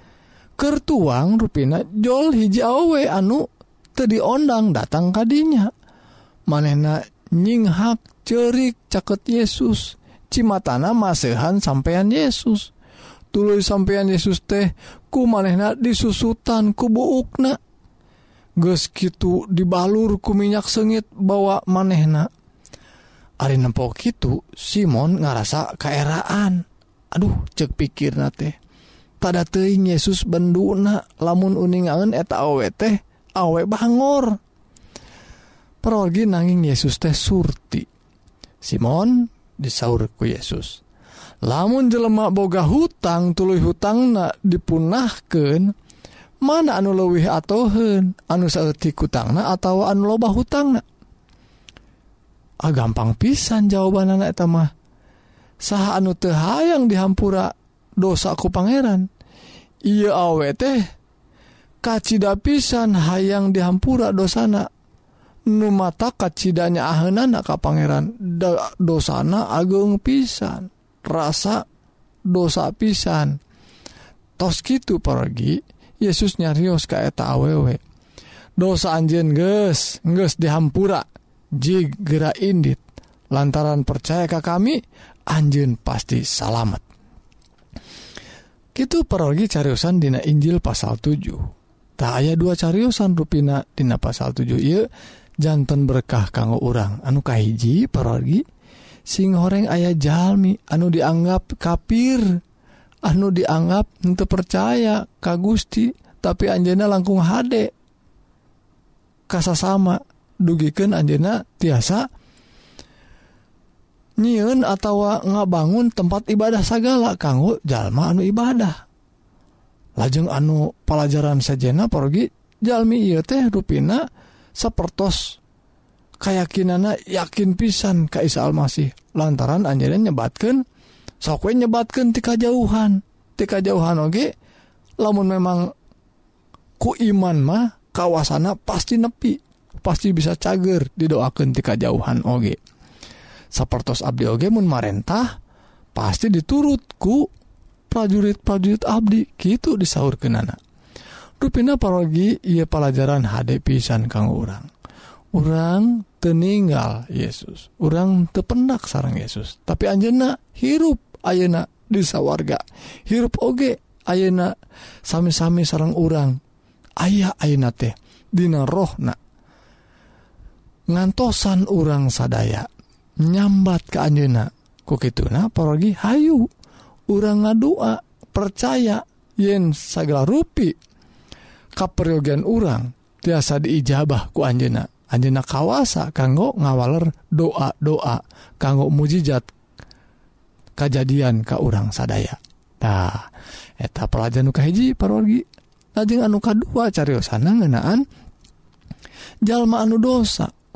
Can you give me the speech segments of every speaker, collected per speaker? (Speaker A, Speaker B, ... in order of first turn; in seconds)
Speaker A: 0.6-5.7, 6.5-12.7, 13.3-17.6, 18.6-22.3, 23.4-28.6, 29.2-34.4, 35.8-37.9, 38.6-40.8, 41.5-45.7, 46.4-50.8, 52.6-54.7, 55.6-59.1, 59.9-60.9, 61.8-64.7, 65.5-71.7, 72.3-73.4, 74.4-77.8, 78.6-81.0, 81.6-82.8, 83.3-86.8, 88.8-94.8, 95.4-98.4, 99.1-102.4, 103.1-107.7, 109.3-112.1, 114.2-118.8, 120.0-124.0, 124.6-125.4, 126.2-130.6, 131.2-134.3, 135.0-135.7, 136.8-142.6, 143.5-145.3, 145.9-147.3, 147.9-150.6, 151.4-154.7, 155.3-164.5, 165.1-166.4, 167.0-169.2, 170.9-172.7, 173.2-176.5, 177.1-180.8, 181.8-189.5, 190.8-195.4, 196.0-198.0, 199.4-200.5